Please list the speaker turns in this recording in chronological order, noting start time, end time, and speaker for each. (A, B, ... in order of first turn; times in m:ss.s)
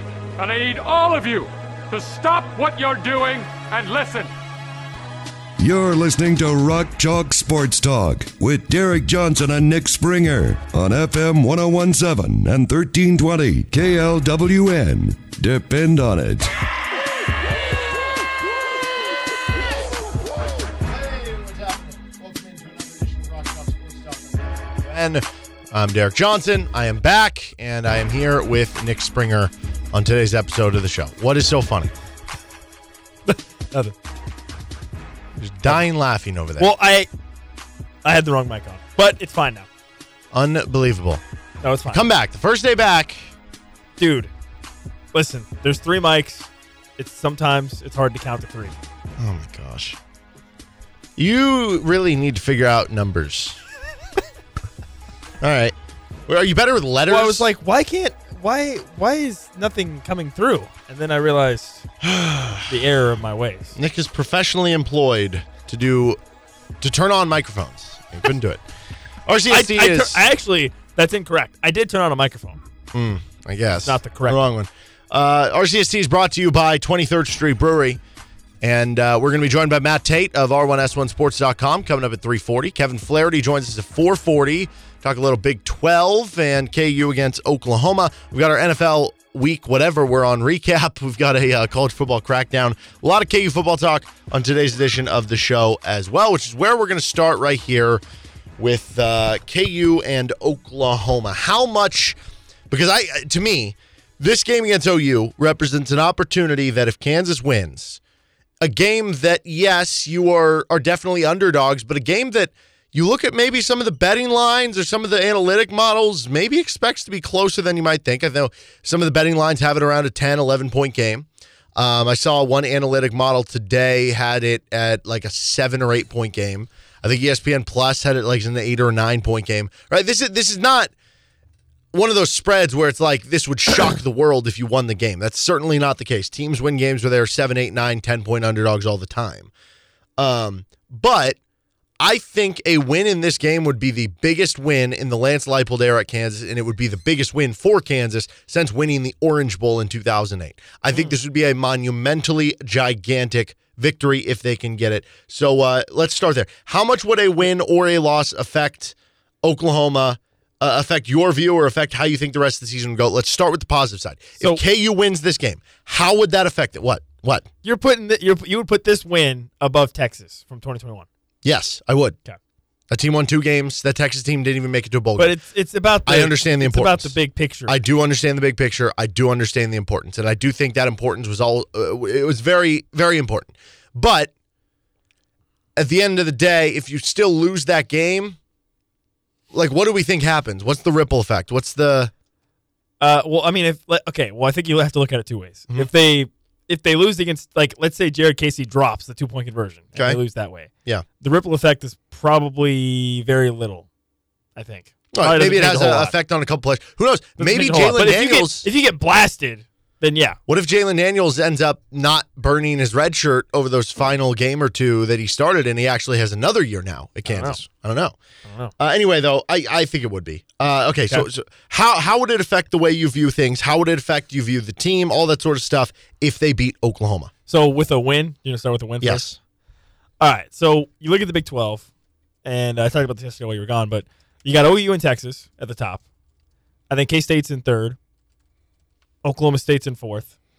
0:00.4-0:04.3 A
0:05.6-0:16.5 B
0:20.6-0:31.9 C
0:33.2-0:33.9 D
0:35.4-0:36.7 C
0:36.6-0:37.1 D
0:38.0-0:39.7 D
0:40.3-0:41.2 C
0:41.6-0:42.1 D
0:41.9-0:43.3 C
0:44.0-0:44.3 D
0:45.1-0:48.8 D
0:49.2-0:50.0 C
0:51.2-0:53.6 C
0:55.4-0:55.7 C
0:56.3-0:57.5 C
0:57.1-1:01.8 D
1:02.0-1:02.7 C
1:02.7-1:03.8 D
1:03.8-1:06.2 C
1:06.8-1:08.6 C
1:09.2-1:10.2 C
1:09.5-1:12.6 D
1:12.9-1:18.0 C
1:13.8-1:14.4 D
1:18.6-1:38.0 C
1:38.6-1:42.2 C
1:42.7-1:48.0 C
1:48.6-2:10.9 C
2:11.9-2:19.5 C
2:20.2-2:21.4 C
2:22.0-2:47.5 C
2:47.6-2:51.0 D
2:51.4-2:52.2 C
2:52.9-2:55.3 C
2:55.2-2:57.8 D
2:56.0-2:57.1 C
2:57.7-3:04.3 C
3:05.8-3:08.4 C
3:09.5-3:12.1 C
3:13.0-3:20.7 D
3:19.9-3:20.2 C
3:21.2-3:23.8 D
3:24.6-3:26.1 D
3:25.1-3:28.7 C
3:27.4-3:30.4 D
3:30.5-3:38.2 C
3:37.3-3:37.6 D
3:38.5-3:38.7 D
3:38.8-3:47.3 C
3:47.5-3:49.3 D
3:49.0-3:49.4 C
3:50.2-3:51.8 D
3:52.4-3:56.0 D
3:56.9-3:58.0 D
3:59.2-4:00.3 D